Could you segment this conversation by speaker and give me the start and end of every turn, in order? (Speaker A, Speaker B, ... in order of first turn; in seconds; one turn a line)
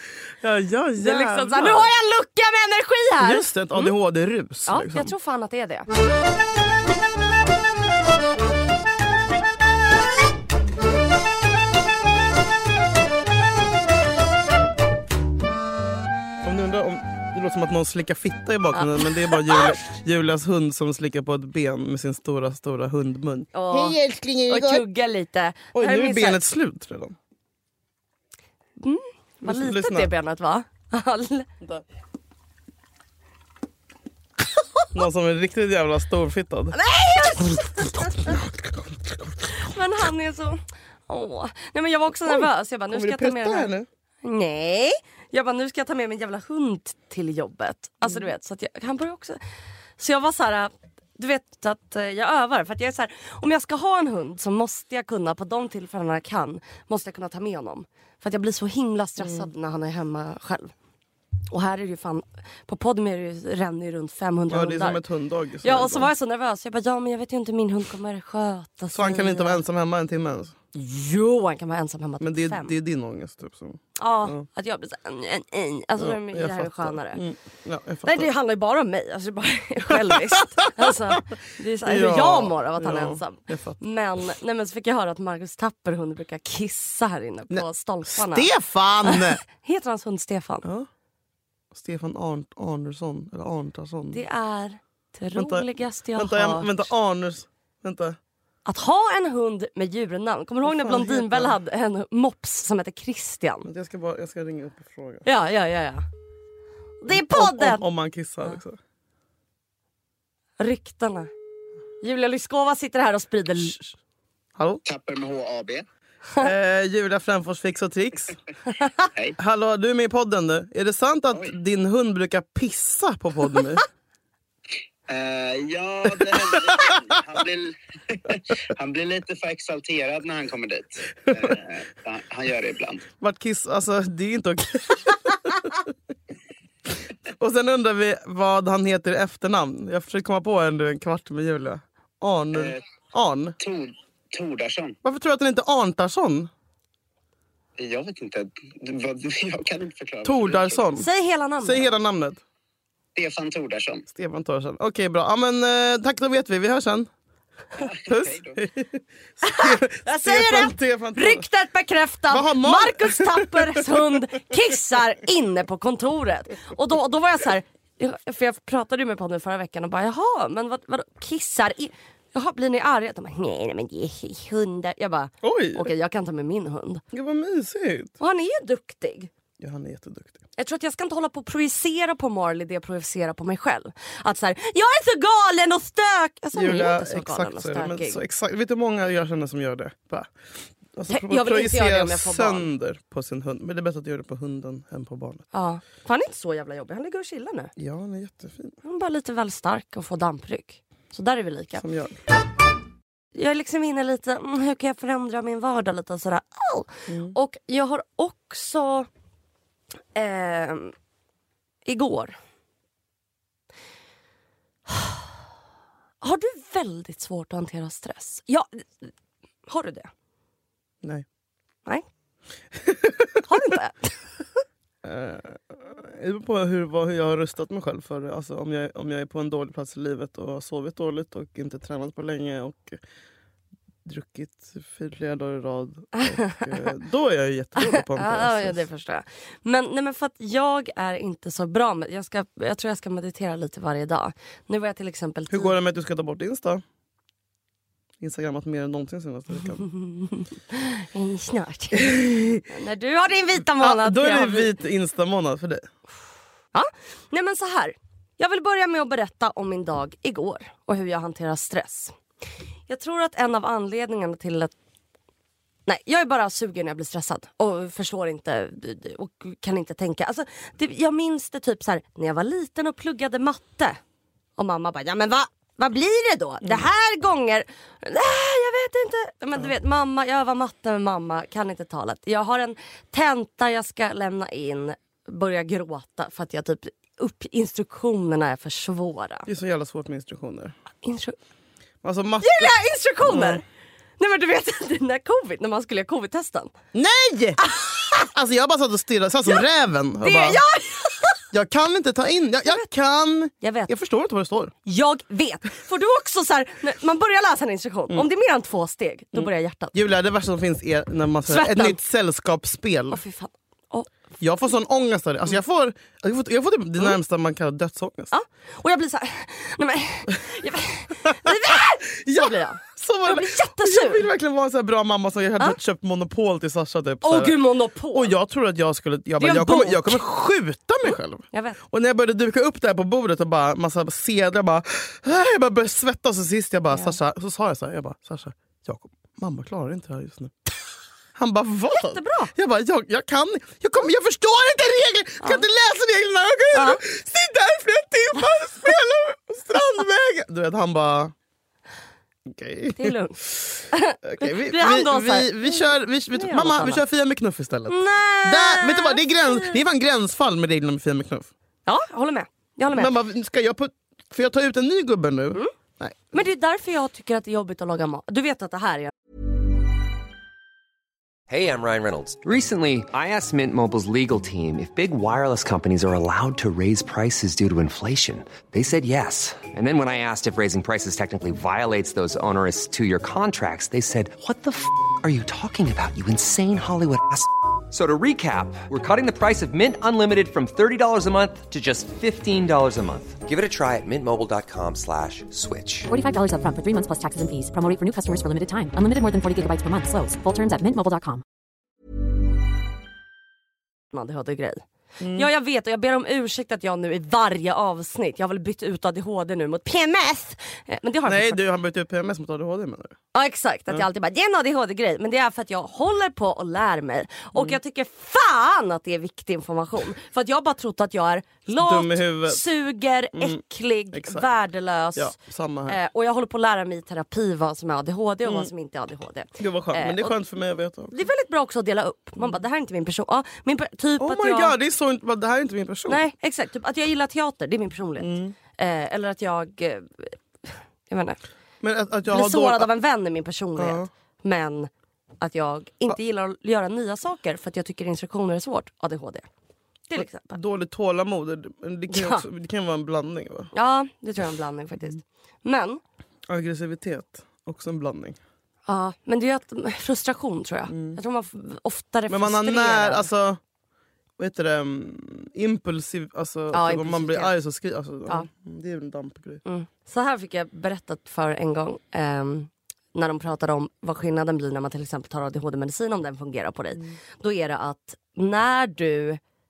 Speaker A: 0.4-1.9
Speaker B: 1.0-3.9
Speaker A: 3.2-5.1
Speaker B: 4.7-5.9
Speaker A: 16.4-24.8
Speaker B: 18.7-19.8
Speaker B: 23.5-24.0
Speaker B: 24.5-26.4
Speaker A: 25.7-27.2
Speaker B: 28.8-31.5
Speaker A: 29.4-30.1
Speaker A: 34.9-36.8
Speaker B: 36.7-38.4
Speaker A: 37.4-39.5
Speaker B: 39.5-43.7
Speaker A: 42.2-43.9
Speaker B: 44.2-49.4
Speaker B: 50.0-60.7
Speaker A: 59.2-59.5
Speaker B: 61.5-65.0
Speaker A: 64.5-66.1
Speaker B: 65.6-69.6
Speaker A: 68.9-70.5
Speaker B: 70.7-72.8
Speaker A: 72.2-74.5
Speaker B: 74.0-77.2
Speaker A: 76.0-78.3
Speaker B: 78.0-88.5
Speaker A: 79.9-80.9
Speaker A: 81.8-83.8
Speaker A: 87.5-89.4
Speaker B: 89.0-90.7
Speaker A: 90.6-90.9
Speaker A: 91.7-94.2
Speaker B: 94.1-96.9
Speaker A: 95.3-98.2
Speaker B: 98.6-103.7
Speaker A: 100.6-101.5
Speaker A: 103.6-105.2
Speaker B: 105.2-106.0
Speaker B: 107.0-107.8
Speaker A: 107.1-108.8
Speaker B: 110.6-111.3
Speaker B: 112.0-113.8
Speaker A: 114.6-114.8
Speaker C: 114.8-115.8
Speaker A: 116.4-118.3
Speaker B: 118.7-119.0
Speaker A: 119.4-123.8
Speaker C: 125.1-133.1
Speaker A: 126.5-126.9
Speaker A: 133.2-135.9
Speaker A: 137.3-143.6
Speaker C: 142.5-142.8
Speaker C: 143.6-145.0
Speaker A: 145.0-146.5
Speaker C: 147.8-150.8
Speaker A: 150.2-151.1
Speaker B: 150.9-152.0
Speaker A: 151.6-152.4
Speaker C: 153.1-154.1
Speaker A: 154.1-157.1
Speaker C: 157.8-158.6
Speaker A: 158.0-161.4
Speaker B: 159.4-177.0
Speaker A: 162.3-164.1
Speaker A: 175.4-175.9
Speaker A: 177.1-178.1
Speaker B: 178.2-179.3
Speaker A: 179.6-180.4
Speaker B: 180.6-188.2
Speaker A: 186.5-190.3
Speaker A: 190.9-195.4
Speaker B: 191.1-192.7
Speaker B: 195.5-197.7
Speaker A: 197.8-198.8
Speaker B: 198.8-201.8
Speaker A: 201.8-202.2
Speaker B: 203.3-209.1
Speaker A: 207.1-207.3
Speaker B: 210.1-210.9
Speaker B: 211.8-212.3
Speaker B: 214.9-215.2
Speaker B: 216.2-219.1
Speaker B: 219.7-220.1
Speaker A: 222.7-223.4
Speaker B: 223.4-224.2
Speaker A: 225.0-233.0
Speaker A: 234.0-238.8
Speaker B: 236.1-236.8
Speaker B: 237.8-245.7
Speaker A: 245.5-246.8
Speaker A: 248.2-249.8
Speaker B: 249.8-254.7
Speaker A: 251.9-252.6
Speaker A: 253.8-255.8
Speaker B: 256.7-262.1
Speaker B: 262.9-264.7
Speaker B: 265.9-274.0
Speaker B: 274.6-289.5
Speaker A: 289.5-290.7
Speaker B: 291.0-291.4
Speaker A: 292.0-293.6
Speaker B: 292.4-293.6
Speaker B: 294.2-296.7
Speaker A: 296.9-297.6
Speaker B: 297.6-298.3
Speaker A: 298.2-300.6
Speaker B: 300.2-301.4
Speaker A: 301.5-304.7
Speaker B: 303.6-303.9
Speaker B: 304.8-309.9
Speaker A: 309.3-313.2
Speaker B: 311.5-312.0
Speaker B: 313.1-314.1
Speaker A: 314.4-318.3
Speaker B: 318.3-324.3
Speaker A: 321.2-327.6
Speaker B: 327.2-328.3
Speaker A: 328.1-340.5
Speaker B: 329.4-330.2
Speaker B: 331.0-331.8
Speaker A: 341.4-351.3
Speaker B: 341.9-342.5
Speaker B: 346.7-347.0
Speaker A: 352.5-361.5
Speaker B: 352.9-357.0
Speaker B: 357.9-359.8
Speaker B: 361.9-363.1
Speaker A: 362.9-366.4
Speaker B: 366.3-369.1
Speaker D: 371.5-396.1
Speaker E: 396.1-401.4
Speaker B: 404.1-411.6
Speaker A: 405.2-405.5
Speaker A: 411.2-413.1
Speaker B: 413.3-425.4
Speaker A: 421.7-422.6
Speaker A: 423.3-423.6
Speaker A: 424.1-424.5
Speaker A: 425.1-426.0
Speaker B: 425.9-430.3
Speaker A: 428.4-428.7
Speaker A: 429.6-431.2
Speaker B: 431.1-434.8
Speaker A: 434.2-436.2
Speaker B: 436.1-441.4
Speaker A: 438.2-438.5
Speaker A: 441.8-442.9
Speaker B: 442.3-449.4
Speaker A: 443.8-444.1
Speaker B: 450.1-450.6
Speaker A: 450.1-453.7
Speaker B: 452.1-452.4
Speaker B: 453.7-456.0
Speaker A: 456.5-458.4
Speaker B: 458.9-463.3
Speaker A: 460.9-461.2
Speaker A: 462.3-463.6
Speaker A: 464.4-469.6
Speaker B: 466.7-467.5
Speaker B: 469.6-479.4